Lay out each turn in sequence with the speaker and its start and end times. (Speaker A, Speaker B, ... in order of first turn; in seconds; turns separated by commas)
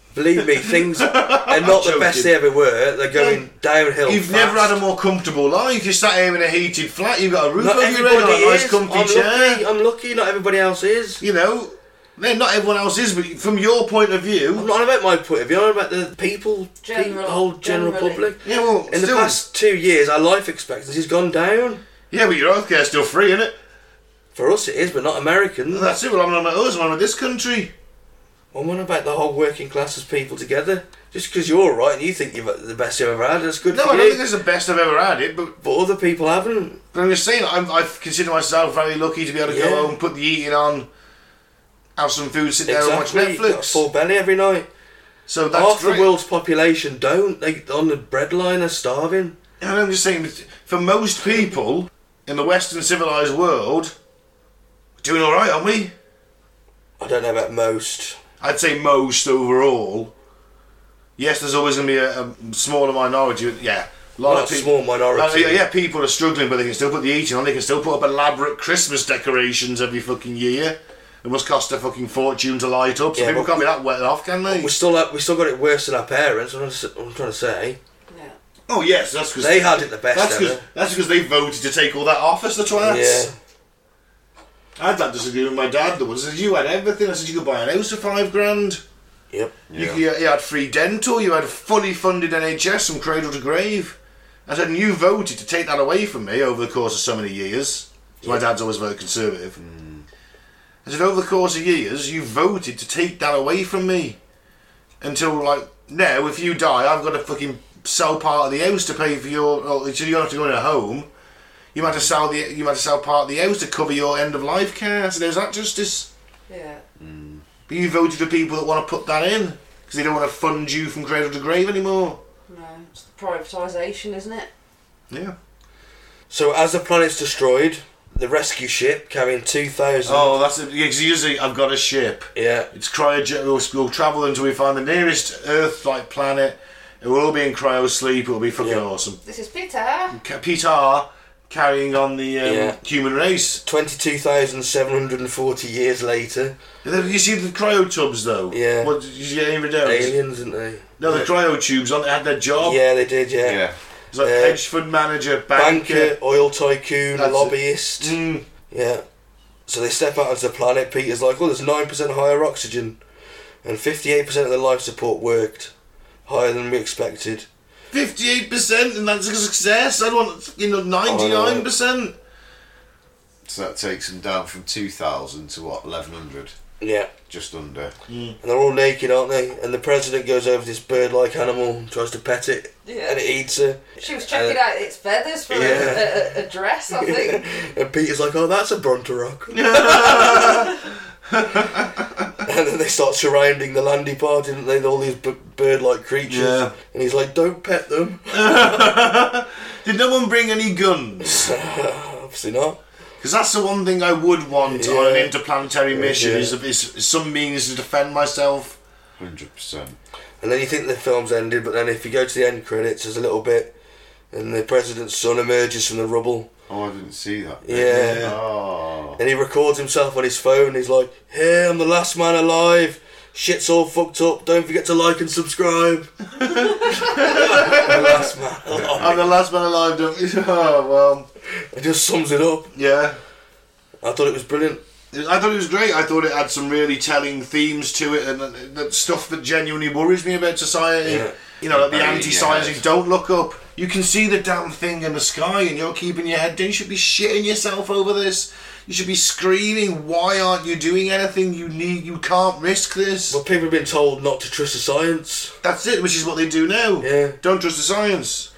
Speaker A: 0.1-4.8, Speaker B: 0.7-2.3, Speaker B: 3.1-3.5, Speaker B: 4.1-9.7, Speaker A: 7.6-11.2, Speaker B: 11.2-14.7, Speaker A: 14.6-21.8, Speaker C: 16.8-18.3, Speaker B: 18.4-19.4, Speaker B: 22.1-23.6, Speaker A: 24.4-25.9, Speaker B: 25.7-27.7, Speaker A: 28.5-34.2, Speaker B: 33.7-35.6, Speaker A: 35.6-36.8, Speaker B: 36.9-40.9, Speaker A: 39.5-40.0, Speaker B: 42.0-43.8, Speaker A: 42.6-44.7, Speaker B: 45.3-46.1, Speaker A: 45.5-49.4, Speaker B: 49.6-53.9, Speaker B: 55.0-55.9, Speaker A: 57.0-58.2, Speaker B: 58.4-60.1, Speaker B: 61.2-74.7, Speaker A: 64.2-65.6, Speaker A: 73.1-73.7, Speaker A: 74.5-77.8, Speaker C: 78.1-78.4, Speaker B: 78.7-83.3, Speaker A: 79.4-80.6, Speaker A: 82.8-83.3, Speaker B: 84.8-88.8, Speaker A: 89.3-89.6, Speaker D: 89.7-90.0, Speaker B: 89.7-99.6, Speaker D: 99.6-100.1, Speaker B: 100.8-104.2, Speaker B: 105.0-111.1, Speaker B: 111.7-116.1, Speaker D: 111.8-112.2, Speaker C: 116.5-116.8, Speaker D: 117.0-117.4, Speaker B: 117.7-122.2, Speaker C: 122.5-124.5, Speaker A: 126.3-130.4, Speaker B: 130.1-139.2, Speaker A: 132.3-132.7, Speaker A: 138.6-138.8, Speaker C: 139.2-140.2, Speaker B: 140.1-143.6, Speaker A: 142.4-142.8, Speaker A: 143.7-146.6, Speaker B: 146.8-150.2, Speaker A: 148.5-148.9, Speaker A: 149.8-151.3, Speaker B: 151.0-152.8, Speaker A: 152.6-153.6, Speaker D: 153.4-153.8, Speaker B: 154.1-156.2, Speaker A: 154.2-154.6, Speaker A: 155.5-158.2, Speaker B: 157.2-158.5, Speaker A: 158.7-159.0, Speaker A: 159.7-163.0, Speaker A: 163.6-165.7, Speaker A: 166.3-167.5, Speaker B: 167.9-172.2, Speaker A: 171.1-171.7, Speaker D: 173.4-176.6, Speaker A: 176.8-177.1, Speaker D: 177.3-177.9, Speaker B: 178.1-178.4, Speaker A: 178.4-184.6, Speaker C: 182.8-183.2, Speaker C: 184.0-187.6, Speaker A: 185.5-186.2, Speaker A: 187.0-190.7, Speaker B: 189.5-192.3, Speaker A: 192.4-198.8, Speaker B: 196.3-196.8, Speaker B: 198.3-201.5, Speaker A: 201.2-202.8, Speaker B: 203.2-208.8, Speaker A: 204.7-205.3, Speaker A: 205.9-206.6, Speaker D: 209.2-210.0, Speaker A: 210.4-213.7, Speaker A: 214.3-216.5, Speaker D: 216.7-219.2, Speaker A: 217.6-218.3, Speaker B: 217.7-218.4, Speaker A: 219.2-226.1, Speaker B: 226.4-228.3, Speaker A: 226.9-229.3, Speaker B: 228.9-231.3, Speaker A: 231.5-232.7, Speaker B: 232.7-233.2, Speaker A: 234.0-234.8, Speaker B: 235.1-253.4, Speaker A: 241.0-241.4, Speaker D: 241.7-242.8, Speaker A: 253.3-255.6, Speaker B: 255.6-258.5, Speaker A: 257.0-257.4